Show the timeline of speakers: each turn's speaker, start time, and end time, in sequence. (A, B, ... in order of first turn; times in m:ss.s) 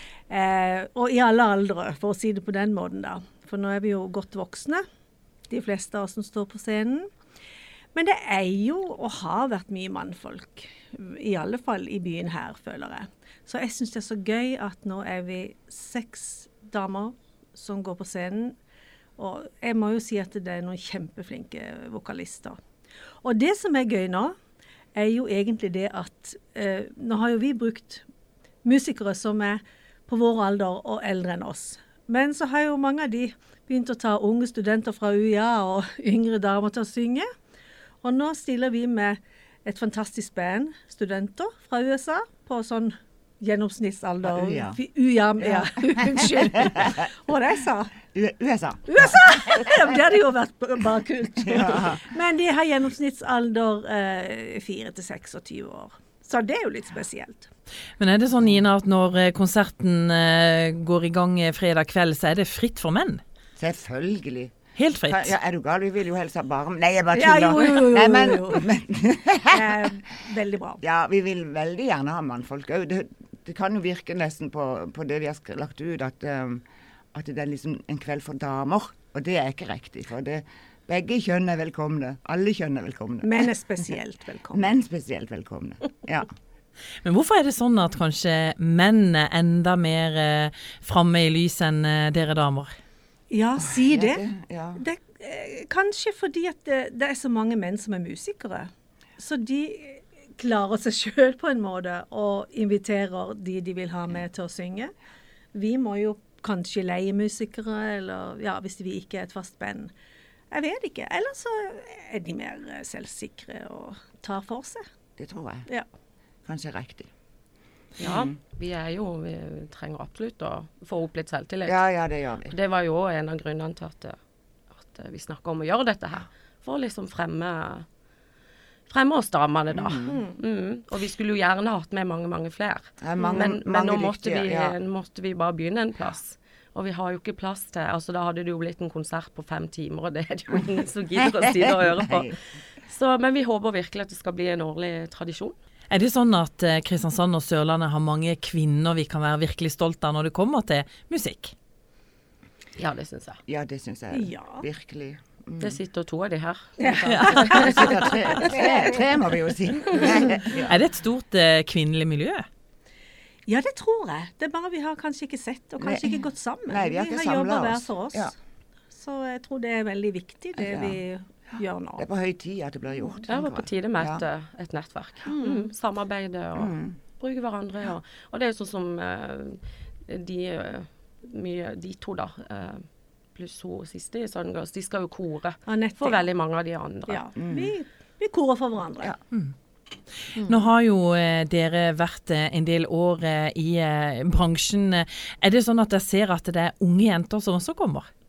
0:00.3-0:04.8 A
0:05.5-0:07.1 A
0:07.9-0:18.6 A
0:19.2-0:22.6 A
0:23.2-0:24.3 A
0:24.9-0:28.0 A
0:28.6-0:37.3 A
0:38.0-0:47.9 A
0:44.2-0:44.8 B
0:45.6-0:46.9 B
0:48.1-0:49.1 B
0:48.9-0:57.5 A
0:51.4-0:52.0 B
0:58.0-1:03.2 C
1:03.6-1:09.8 B
1:04.7-1:05.3 C
1:07.1-1:08.7 A
1:09.5-1:10.8 A
1:10.8-1:16.6 B
1:17.1-1:23.3 B
1:23.2-1:24.7 A
1:24.5-1:26.3 B
1:27.0-1:32.7 C
1:33.3-1:34.2 A
1:33.7-1:34.8 B
1:34.8-1:44.9 A
1:45.5-1:49.9 A
1:50.5-1:54.8 A
1:55.2-1:55.7 B
1:56.4-1:57.1 B
1:58.0-2:01.8 D
1:58.0-1:58.3 B
2:01.6-2:02.5 B
2:02.4-2:04.1 D
2:04.7-2:07.8 D
2:08.9-2:25.5 D
2:09.7-2:10.2 B
2:13.0-2:14.7 B
2:21.9-2:22.3 B
2:25.9-2:31.5 C
2:32.8-2:33.4 D
2:33.5-2:35.8 B
2:34.1-2:34.6 A
2:35.6-2:38.4 D
2:36.8-2:37.6 A
2:37.0-2:37.7 C
2:37.5-2:40.8 B
2:38.4-2:38.7 A
2:40.6-2:42.4 C
2:43.5-2:48.3 A
2:45.8-2:46.1 B
2:46.7-2:48.3 B
2:48.9-2:52.0 A
2:50.6-2:51.0 B
2:52.0-2:54.2 B
2:53.3-3:07.2 D
2:55.3-2:55.6 A
2:56.6-2:57.0 B
3:05.7-3:06.2 A
3:07.1-3:09.2 A
3:07.4-3:07.7 B
3:10.3-3:18.1 C